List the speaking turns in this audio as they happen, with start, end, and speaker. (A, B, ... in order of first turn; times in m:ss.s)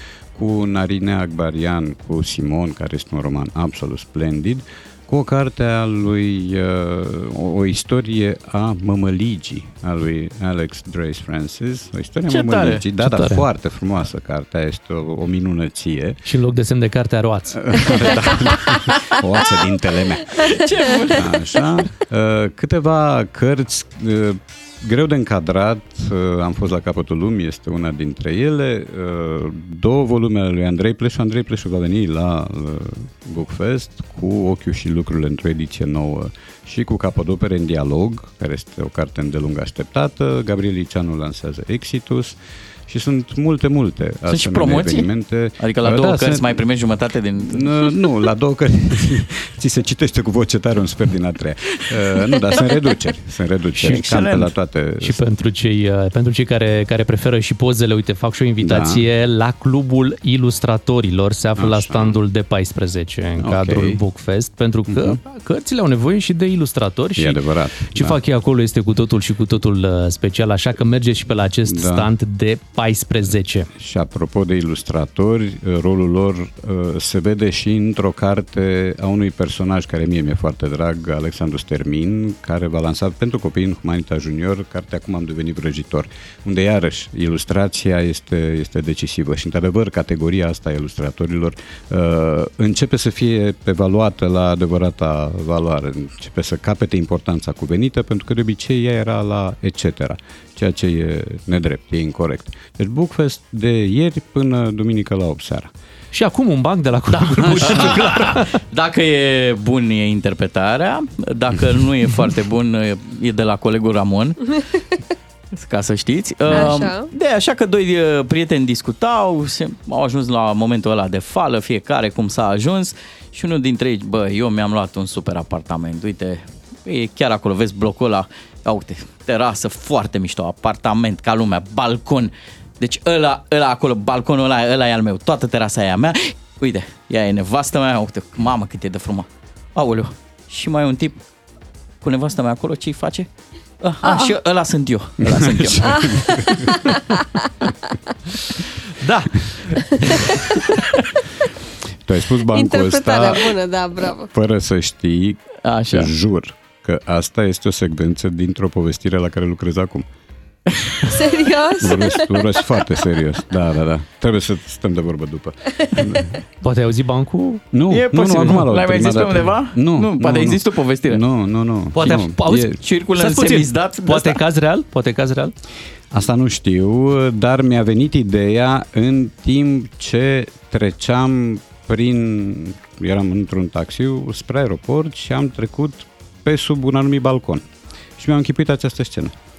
0:00.3-0:16.2 A
0:12.3-0:12.8 B
0:13.0-0:13.4 C
0:16.3-0:17.9 C
0:17.5-0:46.6 A
0:20.4-0:21.5 B
0:44.3-0:45.1 B
0:45.6-0:48.1 B
0:47.4-0:55.2 A
0:53.8-0:54.5 B
0:55.0-1:13.7 C
0:58.6-0:59.1 A
1:01.6-1:02.2 A
1:03.4-1:04.0 A
1:04.9-1:05.2 A
1:07.2-1:08.2 A
1:11.7-1:12.1 A
1:13.8-1:45.7 A
1:46.1-1:48.6 C
1:47.1-1:54.6 B
1:47.4-1:48.0 A
1:55.5-2:21.2 B
1:56.5-1:57.1 D
2:22.0-2:23.3 B
2:23.8-2:26.5 B
2:24.0-2:24.3 D
2:25.2-2:26.7 A
2:25.9-2:27.7 D
2:29.0-2:29.8 C
2:30.1-2:30.6 D
2:32.0-2:33.6 A
2:32.5-2:34.3 D
2:34.3-2:40.1 A
2:35.6-2:36.1 B
2:41.0-2:43.0 D
2:41.8-2:46.4 A
2:45.8-2:46.2 D
2:46.6-2:47.6 C
2:47.7-2:52.8 A
2:47.9-2:51.2 B
2:51.9-2:55.5 C
2:52.5-2:54.4 B
2:56.1-3:07.6 A
3:08.2-3:09.4 A